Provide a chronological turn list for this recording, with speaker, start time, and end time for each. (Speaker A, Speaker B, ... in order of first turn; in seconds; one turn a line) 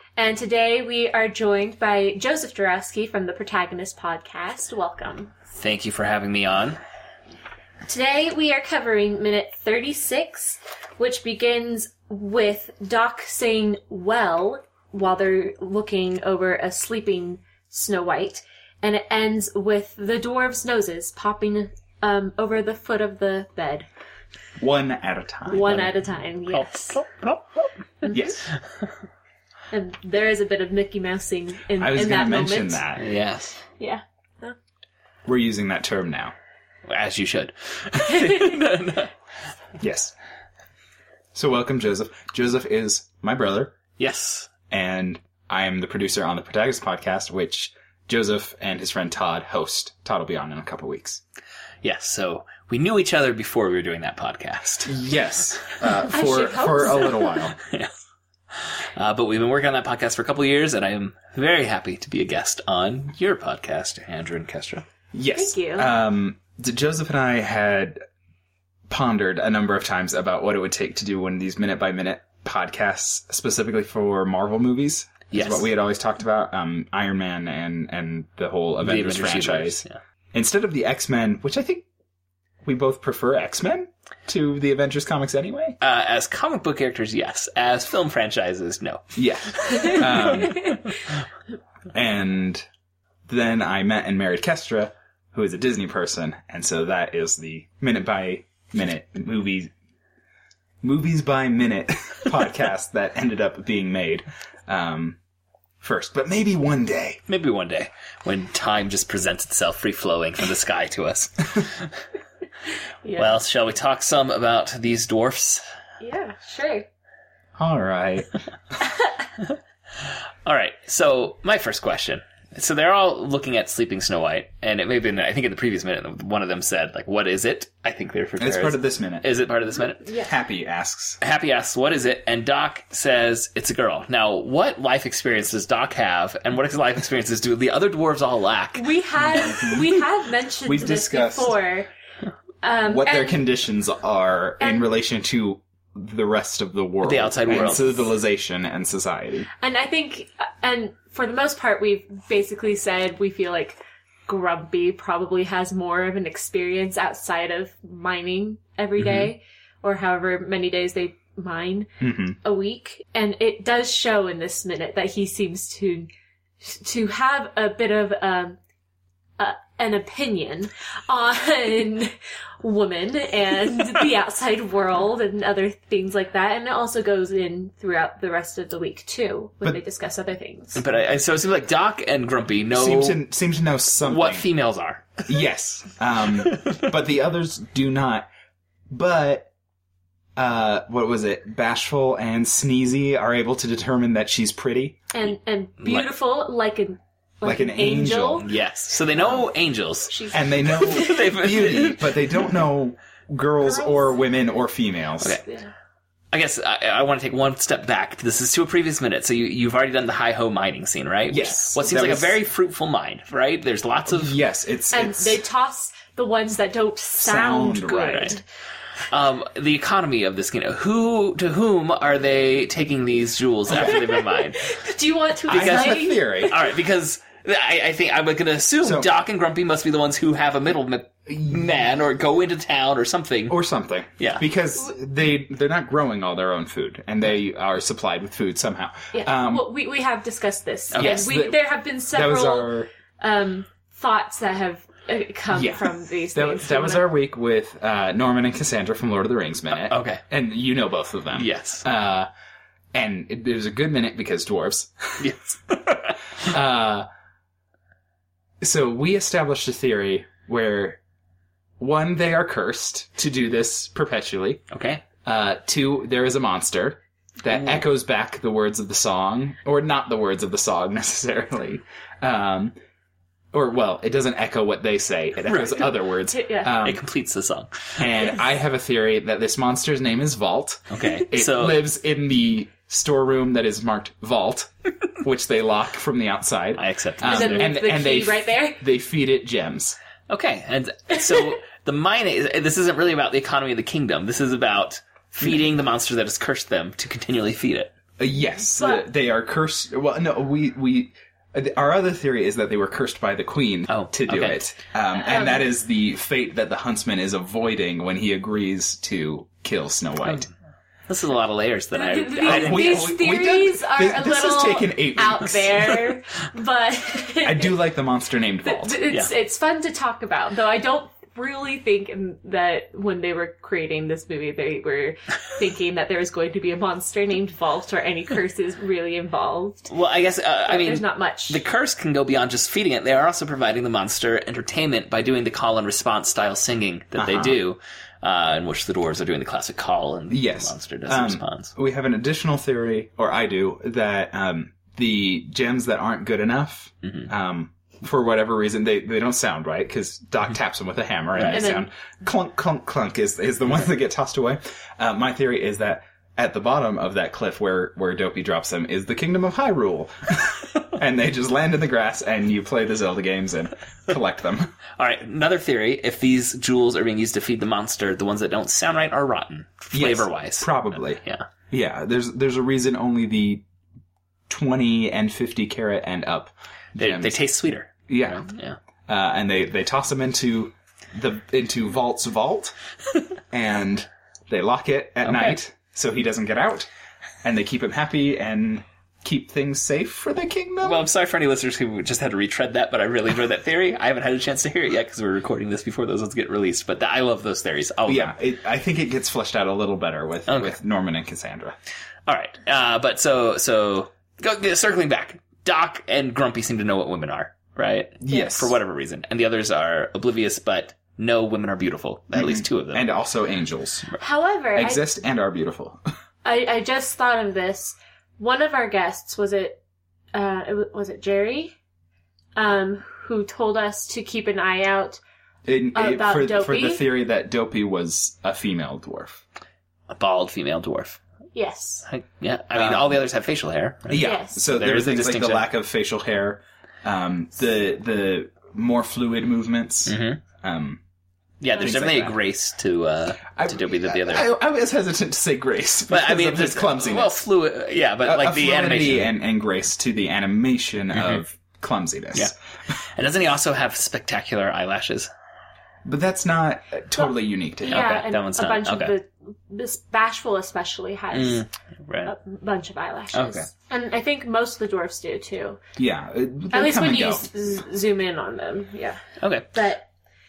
Speaker A: 0.1-5.3
Speaker B: 5.5-6.8
Speaker A: 7.8-23.9
Speaker C: 24.6-25.9
Speaker A: 25.5-27.0
Speaker B: 26.5-28.0
Speaker A: 28.0-28.3
Speaker C: 28.1-28.4
Speaker A: 29.7-32.8
Speaker C: 31.7-33.1
Speaker B: 33.0-33.6
Speaker A: 33.8-34.5
Speaker C: 35.2-36.3
Speaker B: 36.9-39.1
Speaker A: 38.1-38.5
Speaker C: 39.8-40.1
Speaker C: 41.3-43.8
Speaker B: 44.0-44.5
Speaker C: 44.7-51.2
Speaker B: 51.8-54.9
Speaker C: 54.9-57.6
Speaker A: 56.1-57.3
Speaker B: 57.5-57.9
Speaker B: 58.5-64.8
Speaker C: 65.1-68.0
Speaker A: 65.3-65.9
Speaker C: 68.9-81.8
Speaker B: 75.3-75.7
Speaker B: 78.8-80.0
Speaker C: 82.6-85.8
Speaker B: 85.8-91.1
Speaker C: 89.1-90.8
Speaker C: 91.9-92.6
Speaker C: 93.3-99.7
Speaker C: 100.8-105.2
Speaker C: 105.8-107.2
Speaker B: 107.3-111.9
Speaker A: 113.0-113.4
Speaker B: 113.2-115.6
Speaker A: 116.0-116.8
Speaker C: 117.6-118.3
Speaker A: 118.8-119.1
Speaker B: 120.0-130.1
Speaker C: 128.4-129.3
Speaker A: 130.0-130.3
Speaker C: 130.2-131.2
Speaker B: 131.2-138.8
Speaker A: 138.8-141.9
Speaker C: 139.5-139.8
Speaker C: 140.7-141.6
Speaker A: 142.6-143.4
Speaker C: 142.9-149.5
Speaker A: 144.6-144.8
Speaker B: 147.0-148.0
Speaker A: 149.6-161.9
Speaker B: 159.0-159.3
Speaker C: 162.0-162.4
Speaker A: 162.4-166.1
Speaker A: 166.6-168.6
Speaker A: 169.4-180.8
Speaker B: 180.7-183.2
Speaker C: 182.7-184.5
Speaker B: 184.0-185.2
Speaker C: 185.3-188.3
Speaker B: 186.4-186.8
Speaker C: 188.9-189.5
Speaker C: 190.3-195.0
Speaker A: 195.1-198.4
Speaker C: 197.4-198.4
Speaker B: 198.4-202.6
Speaker A: 200.1-201.3
Speaker C: 200.3-205.4
Speaker A: 203.6-204.2
Speaker A: 205.4-205.7
Speaker B: 206.3-214.3
Speaker C: 211.3-212.4
Speaker C: 214.1-215.4
Speaker A: 214.9-218.4
Speaker C: 217.2-218.3
Speaker B: 219.1-224.7
Speaker C: 223.7-224.0
Speaker A: 223.7-226.6
Speaker B: 225.5-233.6
Speaker C: 225.5-226.5
Speaker C: 228.8-229.1
Speaker C: 233.5-239.6
Speaker B: 234.2-234.4
Speaker A: 239.1-247.1
Speaker B: 240.9-241.3
Speaker C: 241.0-242.9
Speaker C: 245.5-252.3
Speaker B: 249.8-250.2
Speaker B: 251.3-251.8
Speaker C: 252.9-255.3
Speaker B: 255.2-256.2
Speaker C: 256.4-257.1
Speaker C: 258.6-261.0
Speaker C: 261.8-264.6
Speaker B: 264.7-265.0
Speaker C: 265.2-272.7
Speaker B: 267.5-267.8
Speaker C: 273.5-277.0
Speaker B: 275.4-275.9
Speaker A: 276.3-276.7
Speaker B: 276.8-278.1
Speaker C: 278.0-290.0
Speaker B: 280.9-281.8
Speaker B: 286.8-287.7
Speaker A: 287.3-288.8
Speaker B: 290.3-297.9
Speaker C: 298.2-310.5
Speaker A: 298.7-299.0
Speaker B: 303.9-304.6
Speaker A: 305.1-305.6
Speaker B: 311.1-313.1
Speaker A: 311.9-317.8
Speaker C: 312.4-315.9
Speaker C: 317.4-319.0
Speaker A: 318.6-329.9
Speaker B: 329.9-341.7
Speaker A: 330.6-331.6
Speaker C: 337.2-337.6
Speaker C: 340.3-364.7
Speaker B: 351.3-351.6
Speaker A: 351.5-351.9
Speaker B: 365.0-371.5
Speaker C: 369.9-373.6
Speaker C: 374.5-377.4
Speaker B: 377.0-378.8
Speaker C: 378.1-378.5
Speaker C: 379.1-382.7
Speaker C: 383.5-386.9
Speaker B: 385.2-385.6
Speaker C: 387.4-391.1
Speaker B: 390.8-398.3
Speaker C: 398.1-401.8
Speaker B: 400.5-400.8
Speaker B: 402.3-413.1
Speaker C: 408.2-408.8
Speaker C: 412.3-414.1
Speaker A: 414.2-415.0
Speaker C: 414.7-416.0
Speaker A: 416.4-419.8
Speaker A: 420.3-421.8
Speaker A: 422.6-425.2
Speaker C: 425.6-429.4
Speaker A: 425.9-427.1
Speaker B: 430.1-431.2
Speaker A: 431.5-432.0
Speaker B: 432.1-435.7
Speaker C: 432.7-433.1
Speaker C: 434.1-441.0
Speaker A: 434.2-434.6
Speaker B: 440.1-440.4
Speaker B: 441.6-444.5
Speaker C: 441.7-442.4
Speaker C: 443.5-447.4
Speaker B: 446.1-449.3
Speaker C: 448.2-452.5
Speaker B: 452.3-455.3
Speaker C: 456.0-458.1
Speaker A: 457.8-461.6
Speaker B: 457.8-459.1
Speaker B: 461.3-462.3
Speaker A: 462.2-465.8
Speaker B: 463.3-463.7
Speaker C: 466.0-467.4
Speaker A: 466.7-470.1
Speaker B: 469.4-469.7